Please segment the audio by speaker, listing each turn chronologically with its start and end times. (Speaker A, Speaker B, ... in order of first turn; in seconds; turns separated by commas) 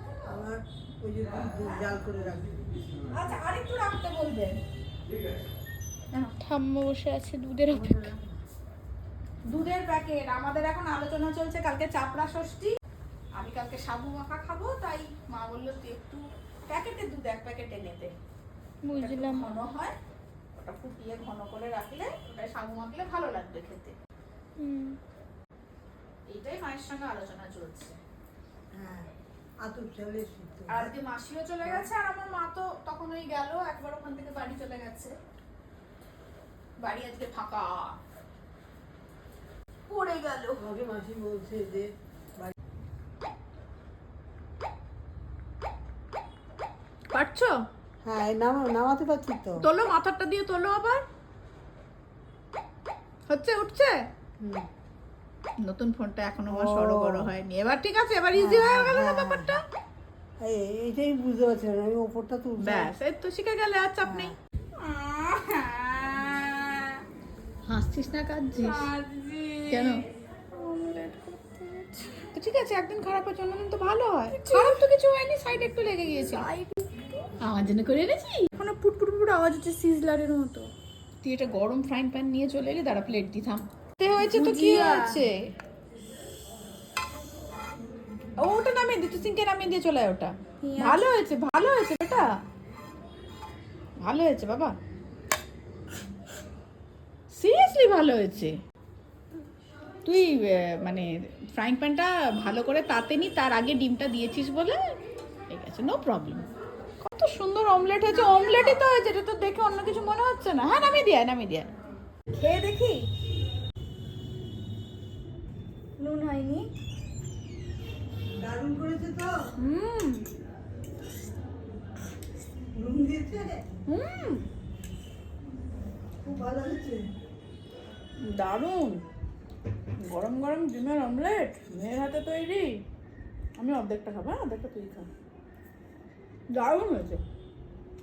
Speaker A: 0.3-2.7, Speaker B: 3.1-4.6, Speaker C: 6.4-8.1, Speaker A: 7.7-8.4, Speaker B: 9.5-12.7, Speaker B: 13.4-18.1, Speaker C: 18.8-19.6, Speaker B: 18.9-19.9, Speaker B: 20.6-23.9, Speaker C: 24.6-25.0, Speaker B: 26.3-28.0, Speaker A: 28.7-30.9, Speaker B: 30.7-35.1, Speaker B: 36.8-37.9, Speaker B: 39.9-40.6, Speaker A: 40.6-42.5, Speaker B: 47.1-47.5, Speaker A: 48.0-49.6, Speaker B: 49.6-51.0, Speaker B: 53.3-54.0, Speaker A: 54.4-54.7, Speaker B: 55.6-59.6, Speaker A: 56.5-57.4, Speaker A: 58.4-59.5, Speaker A: 60.4-62.9, Speaker B: 62.6-64.3, Speaker A: 64.0-64.3, Speaker C: 64.8-67.0, Speaker B: 67.7-68.9, Speaker C: 68.6-72.2, Speaker B: 69.7-70.0, Speaker B: 72.3-76.5, Speaker C: 74.3-74.8, Speaker C: 76.2-77.3, Speaker B: 77.4-78.5, Speaker C: 78.6-80.7, Speaker B: 81.2-85.4, Speaker C: 84.2-85.2, Speaker B: 88.4-92.2, Speaker C: 90.6-91.1, Speaker B: 94.0-94.7, Speaker B: 97.3-98.5, Speaker B: 100.0-104.8, Speaker B: 105.5-106.5, Speaker B: 107.0-111.7, Speaker C: 112.4-113.1, Speaker C: 116.0-116.7, Speaker A: 118.3-119.3, Speaker B: 119.6-120.2, Speaker A: 122.7-123.6, Speaker B: 123.9-124.4, Speaker A: 126.2-127.1, Speaker B: 128.3-129.0, Speaker B: 130.0-132.7, Speaker B: 133.6-135.1, Speaker B: 136.5-137.2